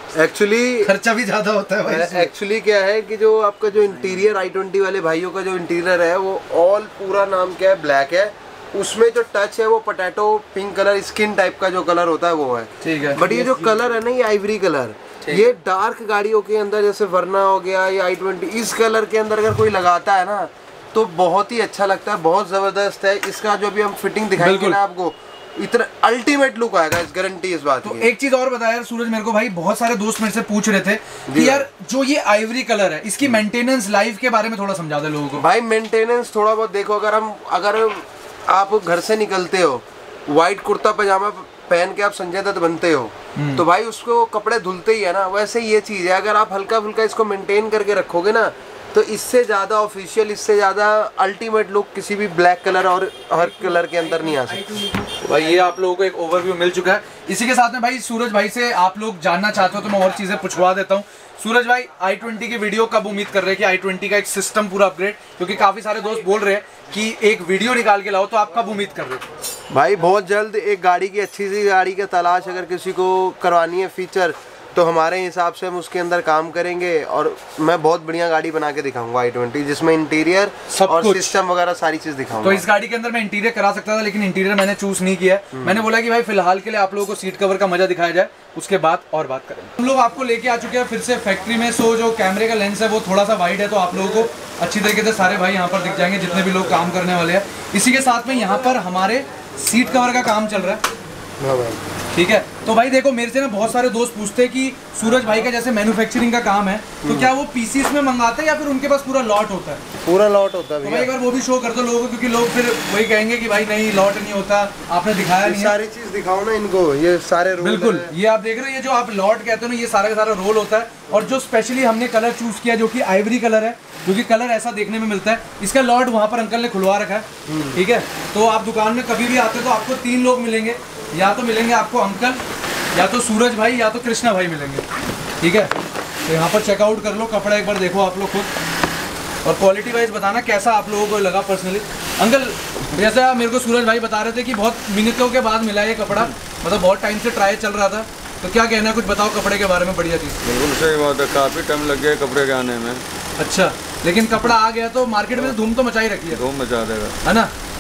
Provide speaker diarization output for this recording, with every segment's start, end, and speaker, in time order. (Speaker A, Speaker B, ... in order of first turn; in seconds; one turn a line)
Speaker A: 0.1-0.9
Speaker B: 0.8-2.3
Speaker A: 1.8-28.1
Speaker B: 12.8-13.7
Speaker B: 15.2-15.5
Speaker B: 24.4-24.8
Speaker B: 27.8-35.4
Speaker A: 31.3-31.6
Speaker A: 35.4-54.8
Speaker B: 43.3-43.6
Speaker B: 55.1-69.3
Speaker A: 69.7-82.7
Speaker B: 80.7-81.3
Speaker B: 82.4-100.8
Speaker A: 85.5-85.8
Speaker A: 101.4-101.8
Speaker B: 102.1-109.8
Speaker A: 107.0-107.3
Speaker A: 110.0-111.1
Speaker B: 110.8-115.7
Speaker A: 115.4-118.1
Speaker B: 117.6-132.4
Speaker A: 121.1-121.3
Speaker A: 127.5-127.8
Speaker B: 132.9-134.8
Speaker B: 135.4-135.7
Speaker B: 136.3-138.5
Speaker B: 139.4-150.4
Speaker C: 150.4-153.0
Speaker B: 153.4-156.4
Speaker C: 156.3-157.2
Speaker B: 157.2-157.5